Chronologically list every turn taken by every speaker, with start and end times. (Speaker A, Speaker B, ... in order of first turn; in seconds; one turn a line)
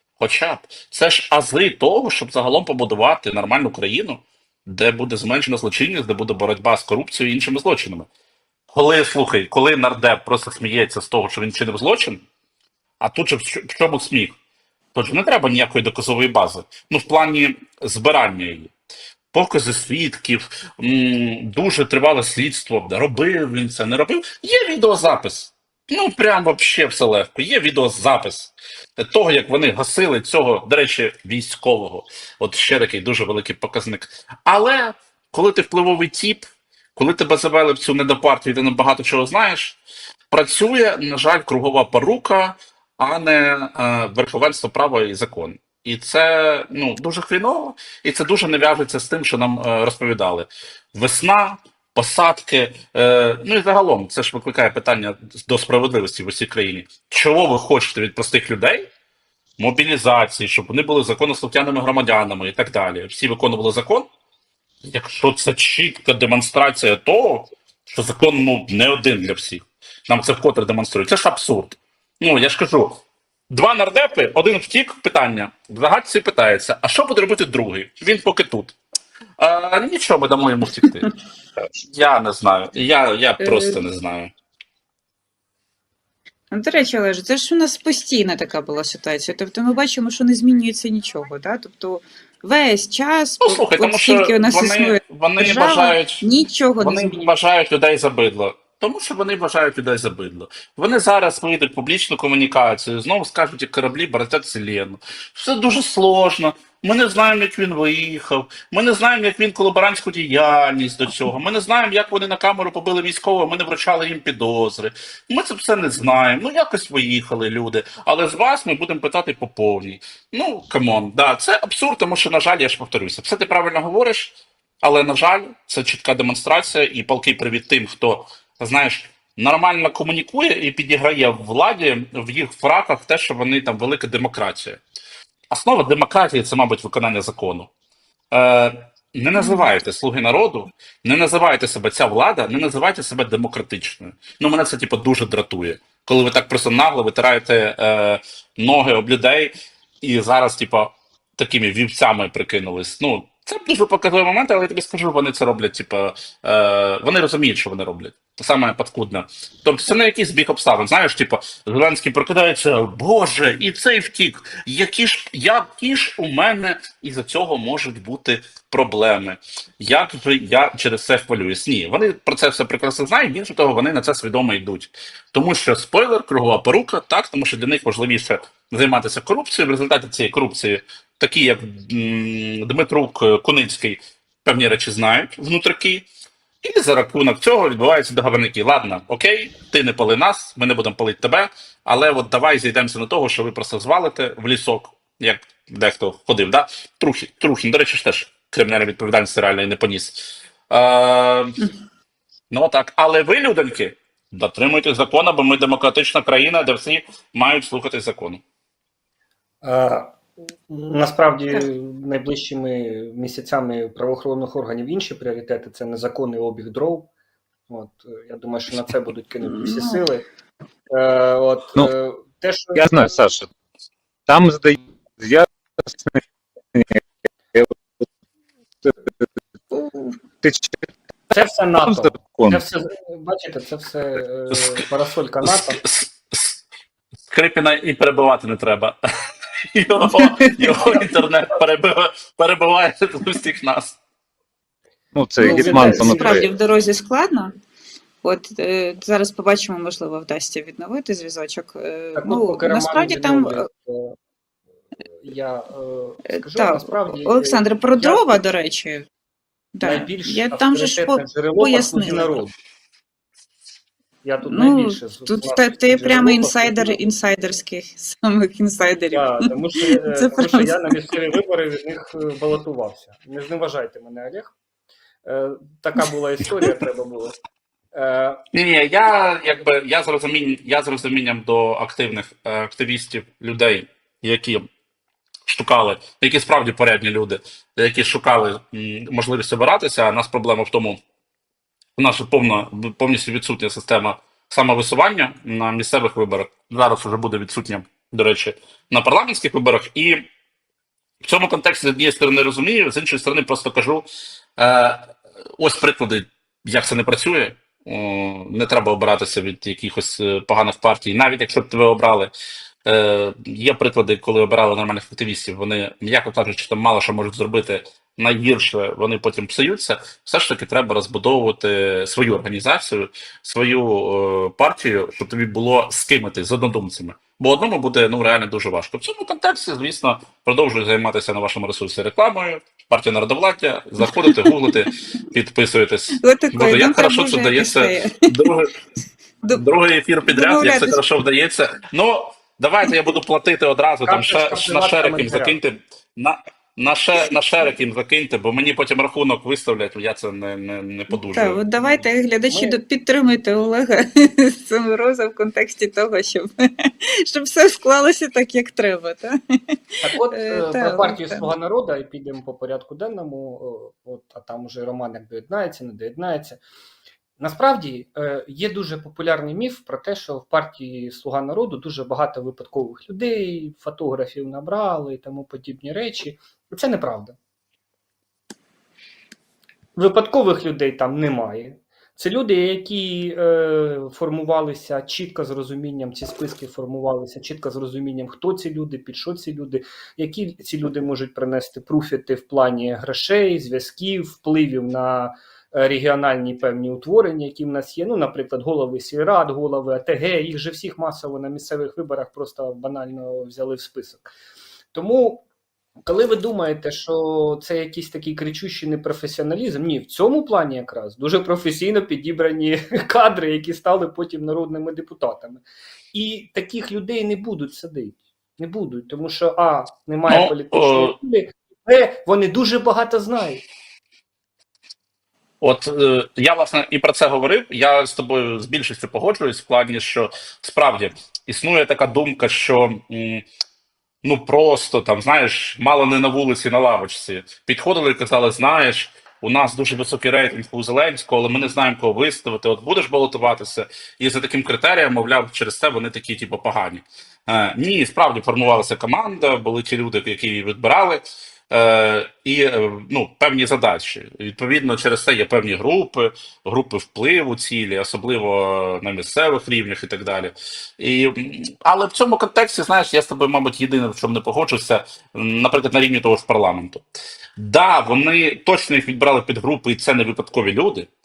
Speaker A: 0.2-8.1
Speaker A: 8.7-12.2
Speaker A: 13.0-14.4
Speaker A: 14.9-18.7
Speaker A: 19.3-39.8
Speaker A: 40.3-58.9
Speaker A: 59.6-64.1
Speaker A: 64.8-78.8
Speaker A: 79.4-81.1
Speaker A: 81.8-84.3
Speaker B: 83.4-83.8
Speaker B: 86.5-97.3
Speaker A: 93.4-96.2
Speaker A: 96.8-134.8
Speaker A: 135.5-137.7
Speaker A: 138.3-186.1
Speaker B: 139.3-139.7
Speaker A: 186.6-201.6
Speaker A: 202.5-208.4
Speaker C: 209.6-217.1
Speaker C: 217.7-220.2
Speaker B: 219.4-220.0
Speaker C: 220.9-223.2
Speaker D: 222.8-223.5
Speaker D: 224.3-226.2
Speaker D: 226.8-227.0
Speaker D: 227.5-228.0
Speaker D: 228.8-229.1
Speaker B: 229.7-230.2
Speaker D: 230.4-230.8
Speaker C: 231.3-235.8
Speaker D: 231.8-232.6
Speaker A: 234.5-234.8
Speaker A: 235.4-236.6
Speaker A: 237.3-239.0
Speaker A: 239.7-244.0
Speaker B: 240.2-240.7
Speaker D: 245.2-246.5
Speaker B: 245.4-247.5
Speaker C: 245.4-246.4
Speaker B: 248.2-253.7
Speaker C: 252.2-254.2
Speaker C: 255.1-258.4
Speaker B: 256.3-259.1
Speaker B: 259.8-262.4
Speaker C: 259.8-262.5
Speaker C: 264.2-267.1
Speaker B: 264.4-270.8
Speaker C: 269.1-274.5
Speaker C: 275.2-277.4
Speaker C: 277.9-278.4
Speaker A: 278.5-284.6
Speaker A: 285.5-291.0
Speaker A: 292.0-300.2
Speaker A: 301.2-312.3
Speaker A: 312.9-338.7
Speaker B: 336.2-338.5
Speaker A: 339.5-351.6
Speaker B: 340.2-341.0
Speaker C: 344.1-345.6
Speaker B: 351.1-359.6
Speaker C: 351.8-352.8
Speaker C: 360.0-366.6
Speaker B: 360.1-361.5
Speaker C: 367.4-377.4
Speaker C: 380.0-404.3
Speaker C: 404.9-405.4
Speaker C: 406.1-423.6
Speaker A: 420.3-421.2
Speaker A: 425.6-433.4
Speaker A: 434.2-467.0
Speaker A: 467.6-471.1